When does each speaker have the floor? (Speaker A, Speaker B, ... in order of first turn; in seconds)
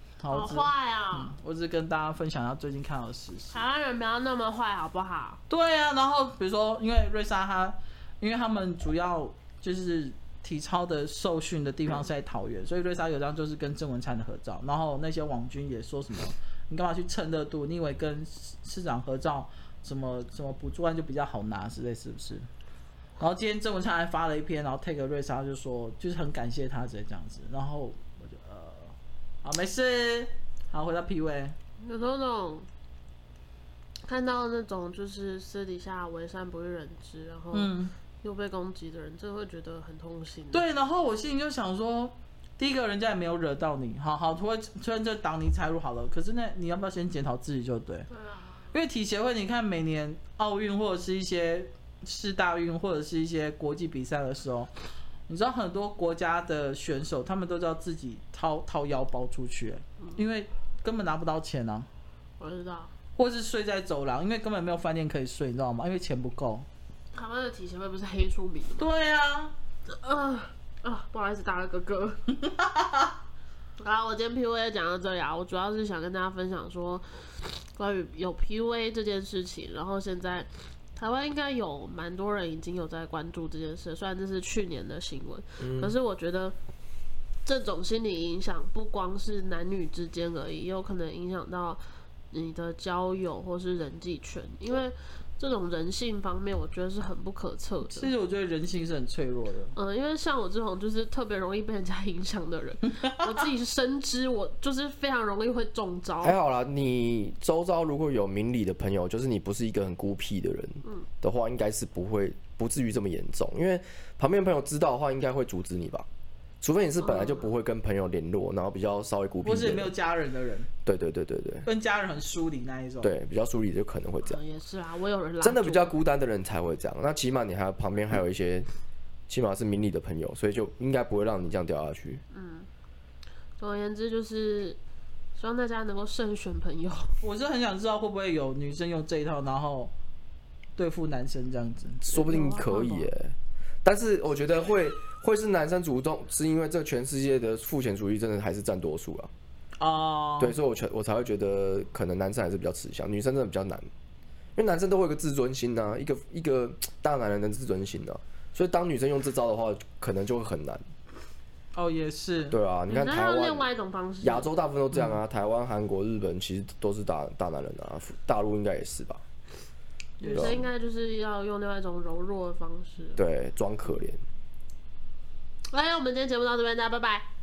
Speaker A: 0.2-3.6, 5.5-22.5, 23.2-31.6, 37.5-37.9, 40.5-48.1, 48.7-54.7, 55.3-61.9, 63.2-66.7, 68.8-69.5, 72.4-73.1, 97.9-99.8, 103.0-103.3, 119.4-120.7, 121.7-123.1, 137.2-139.9, 140.8-142.0, 149.8-150.6, 161.7-162.6, 164.9-165.2, 170.2-170.7
Speaker B: 0.3-1.3, 3.5-5.4, 31.8-32.7, 34.1-40.6, 48.1-48.8, 62.4-62.9, 67.1-68.9, 69.9-72.2, 73.8-86.6, 87.5-98.1, 99.8-106.3, 117.0-117.5, 124.2-125.9, 132.3-132.7, 133.6-134.8, 135.4-137.2, 142.1-143.1, 162.9-164.5, 170.2-173.2, 175.7-177.3
Speaker C: 85.6-86.0, 106.2-116.1, 116.6-119.9, 120.8-121.7, 123.0-124.4, 125.4-128.7, 129.3-132.2, 142.0-149.3, 150.4-153.9, 154.6-160.8, 162.5-163.7, 164.2-169.2, 170.3-170.6, 173.2-174.2